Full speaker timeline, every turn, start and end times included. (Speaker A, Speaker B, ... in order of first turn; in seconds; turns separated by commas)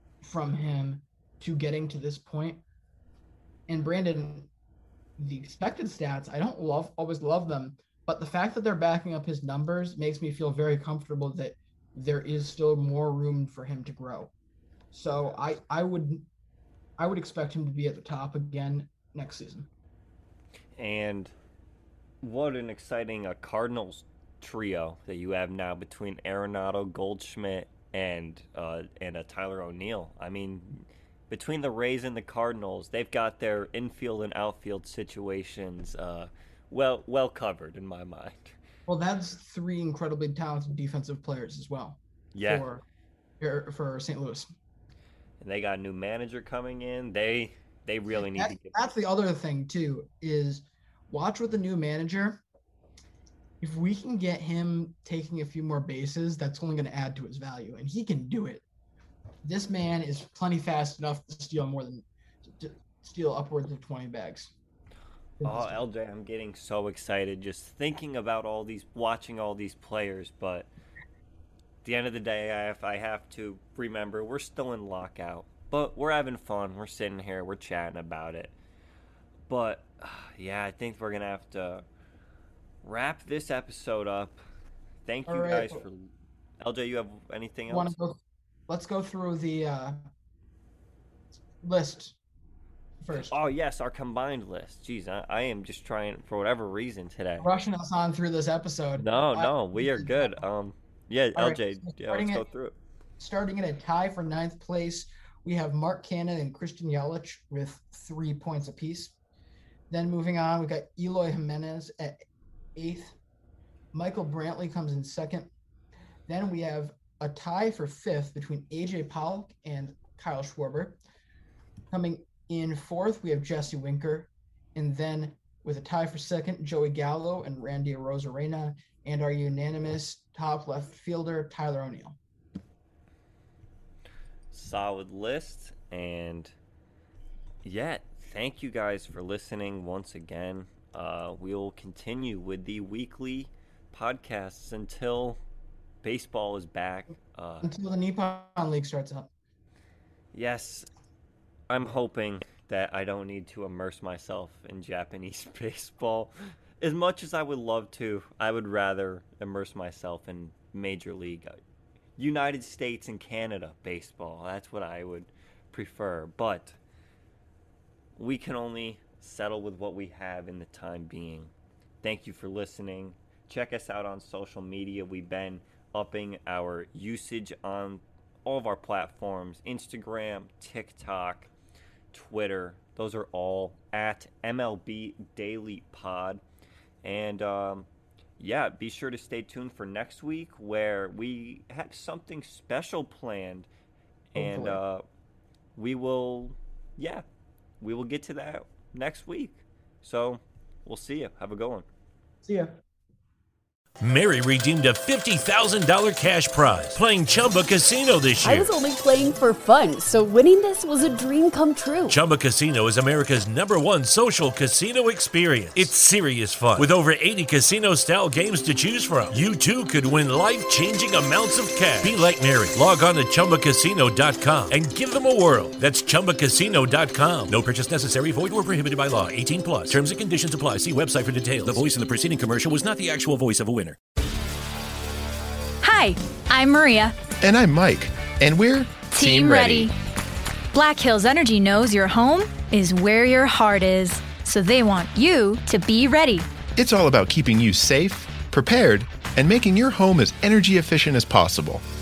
Speaker A: 0.2-2.6, Speaker A: 3.7-4.5, Speaker A: 5.2-14.3, Speaker A: 14.9-16.2, Speaker A: 17.0-19.7, Speaker B: 20.8-21.3, Speaker B: 22.2-38.6, Speaker A: 38.9-42.8, Speaker B: 42.3-42.7, Speaker A: 43.4-44.5, Speaker B: 45.4-48.8, Speaker A: 48.3-52.4, Speaker A: 53.6-58.6, Speaker A: 59.5-64.5, Speaker A: 65.4-65.9, Speaker B: 65.4-70.7, Speaker B: 71.8-78.5, Speaker B: 79.5-81.8, Speaker B: 82.8-84.4, Speaker B: 85.1-88.0, Speaker A: 85.3-85.8, Speaker A: 87.7-90.1, Speaker A: 91.6-92.2, Speaker A: 93.0-93.3, Speaker B: 93.1-97.5, Speaker A: 97.4-100.4, Speaker B: 99.0-102.8, Speaker A: 101.4-102.5, Speaker A: 103.2-109.1, Speaker A: 109.9-112.2, Speaker A: 112.8-113.2, Speaker A: 113.9-115.5, Speaker A: 116.3-121.0, Speaker A: 121.9-132.2, Speaker B: 134.5-136.6, Speaker B: 137.6-145.4, Speaker B: 146.0-147.7, Speaker A: 147.6-149.3, Speaker B: 150.3-150.9, Speaker B: 151.7-161.6, Speaker B: 162.2-166.8, Speaker B: 168.2-181.5, Speaker B: 182.1-186.4, Speaker B: 187.0-187.9, Speaker B: 188.4-193.7, Speaker B: 194.3-195.1, Speaker A: 194.3-194.8, Speaker B: 195.8-197.2, Speaker B: 197.8-201.9, Speaker A: 202.4-202.8, Speaker C: 204.0-208.7, Speaker D: 208.4-212.2, Speaker C: 212.1-234.0, Speaker E: 235.8-237.2, Speaker F: 237.4-239.9, Speaker E: 239.1-239.9, Speaker E: 240.7-246.5, Speaker F: 246.8-251.8